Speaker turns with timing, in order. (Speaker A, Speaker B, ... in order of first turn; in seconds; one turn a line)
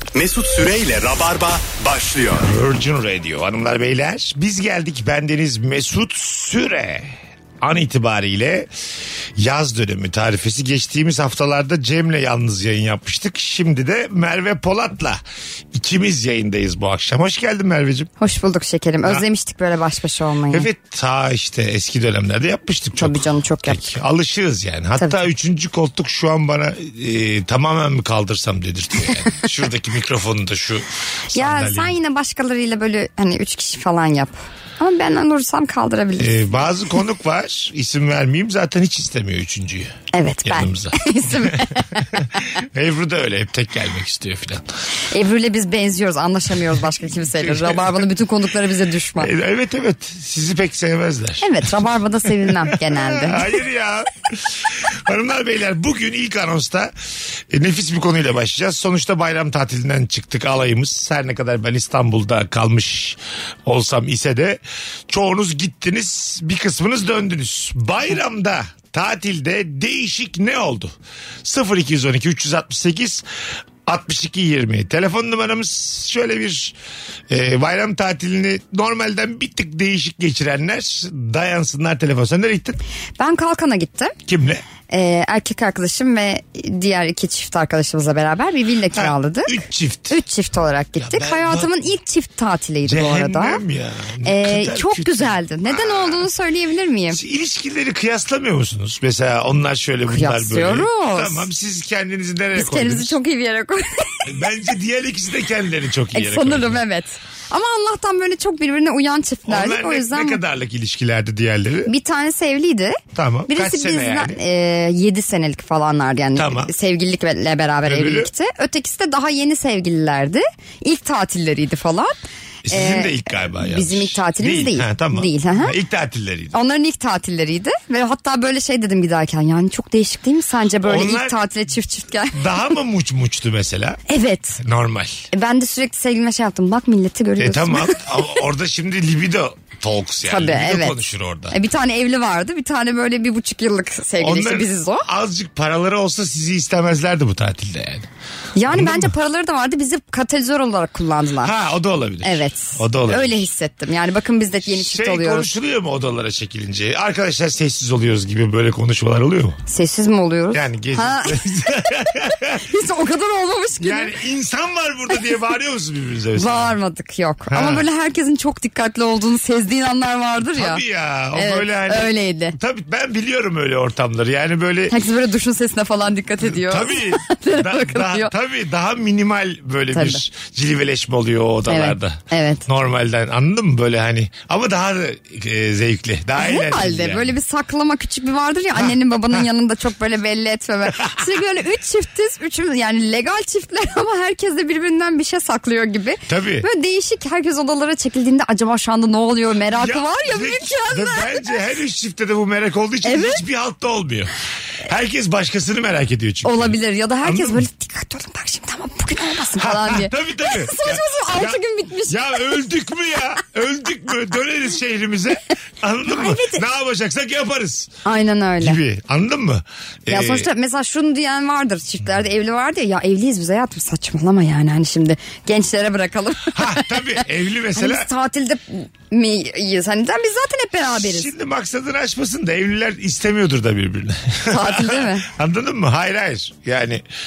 Speaker A: 0.1-2.5
Speaker B: 2.4-8.7
Speaker B: 9.4-15.2
Speaker B: 15.7-18.1
Speaker C: 18.2-20.7
Speaker B: 20.5-31.9
Speaker C: 23.0-23.9
Speaker C: 31.3-36.6
Speaker B: 36.2-44.6
Speaker C: 40.1-42.5
Speaker C: 45.1-49.3
Speaker B: 47.3-48.1
Speaker B: 49.2-51.5
Speaker C: 51.4-53.5
Speaker B: 52.5-56.9
Speaker B: 57.5-73.2
Speaker B: 73.8-76.8
Speaker B: 77.3-82.8
Speaker C: 83.2-84.1
Speaker B: 84.2-84.6
Speaker C: 84.9-89.6
Speaker B: 88.9-90.2
Speaker C: 90.1-93.6
Speaker B: 91.0-91.7
Speaker B: 92.8-96.3
Speaker C: 94.2-97.2
Speaker B: 97.1-103.2
Speaker C: 100.1-101.5
Speaker C: 102.5-104.2
Speaker B: 104.2-106.8
Speaker C: 106.1-110.4
Speaker B: 109.5-111.9
Speaker C: 111.8-122.2
Speaker B: 113.1-114.4
Speaker B: 116.3-116.7
Speaker B: 117.8-118.3
Speaker B: 122.7-126.5
Speaker C: 122.7-125.7
Speaker C: 126.5-132.4
Speaker B: 130.8-131.3
Speaker B: 132.3-134.0
Speaker C: 134.1-134.6
Speaker B: 134.6-135.2
Speaker C: 135.3-138.2
Speaker B: 137.4-141.6
Speaker C: 140.3-140.9
Speaker C: 141.5-145.1
Speaker B: 144.2-148.1
Speaker C: 148.6-151.5
Speaker B: 148.7-149.1
Speaker B: 151.4-153.3
Speaker C: 152.2-155.5
Speaker B: 154.6-159.6
Speaker C: 159.7-161.4
Speaker B: 160.5-162.6
Speaker C: 162.6-164.1
Speaker B: 163.8-166.7
Speaker C: 166.3-170.8
Speaker B: 167.5-167.8
Speaker B: 170.5-174.9
Speaker C: 171.3-172.6
Speaker C: 174.9-178.3
Speaker B: 176.4-187.3
Speaker C: 179.9-180.2
Speaker C: 181.7-182.7
Speaker C: 186.4-201.6
Speaker B: 188.7-189.4
Speaker B: 196.3-196.7
Speaker B: 199.7-207.6
Speaker C: 203.0-203.4
Speaker C: 206.4-212.5
Speaker B: 209.6-217.9
Speaker C: 216.1-216.6
Speaker C: 218.0-218.8
Speaker B: 218.6-220.5
Speaker C: 220.1-227.2
Speaker B: 226.5-228.1
Speaker C: 227.8-231.3
Speaker B: 230.9-237.0
Speaker C: 234.5-235.3